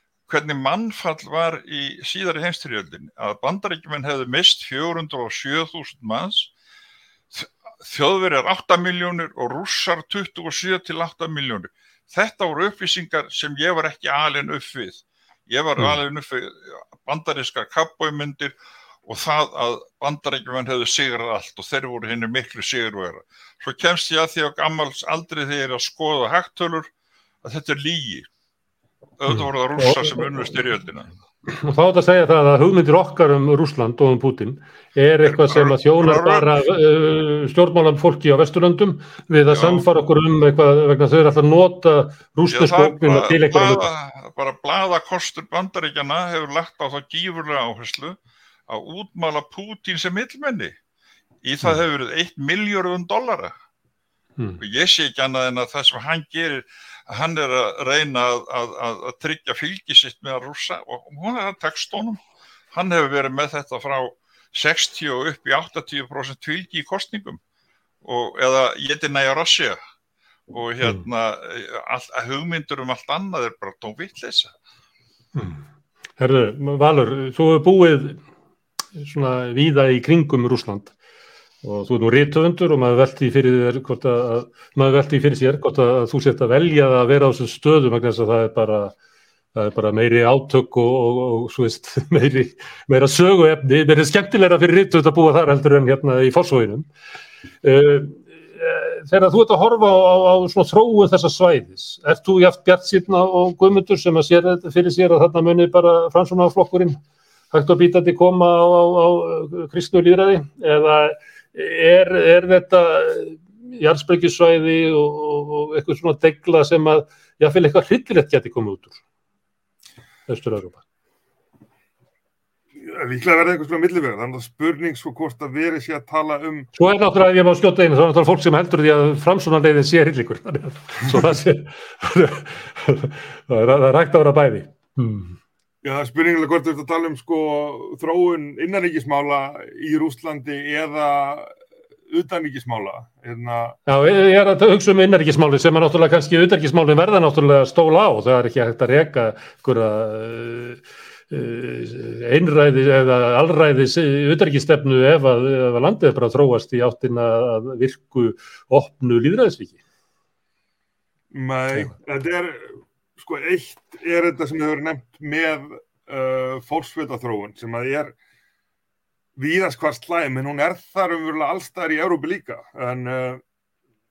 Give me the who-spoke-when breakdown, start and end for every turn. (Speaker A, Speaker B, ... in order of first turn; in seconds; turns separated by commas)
Speaker A: 0.3-6.5, Speaker A: 7.3-18.5, Speaker A: 19.0-26.9, Speaker A: 27.4-28.2, Speaker A: 29.2-31.1, Speaker B: 29.3-30.5, Speaker B: 31.4-43.9, Speaker A: 35.2-36.5, Speaker A: 39.5-39.9, Speaker A: 42.5-48.2, Speaker A: 48.7-50.8, Speaker A: 51.4-53.5, Speaker A: 54.6-62.2, Speaker A: 62.7-67.4, Speaker A: 68.0-69.8, Speaker A: 70.5-74.5, Speaker B: 75.3-75.6, Speaker B: 76.2-78.2, Speaker B: 79.0-81.0, Speaker B: 81.6-88.9, Speaker B: 89.5-96.9, Speaker B: 97.6-107.0, Speaker B: 107.5-119.0, Speaker B: 120.3-120.8, Speaker C: 122.8-126.7, Speaker B: 126.7-135.4, Speaker C: 135.8-141.5, Speaker C: 142.1-143.8, Speaker B: 143.9-159.8, Speaker C: 161.3-168.1, Speaker C: 169.3-173.4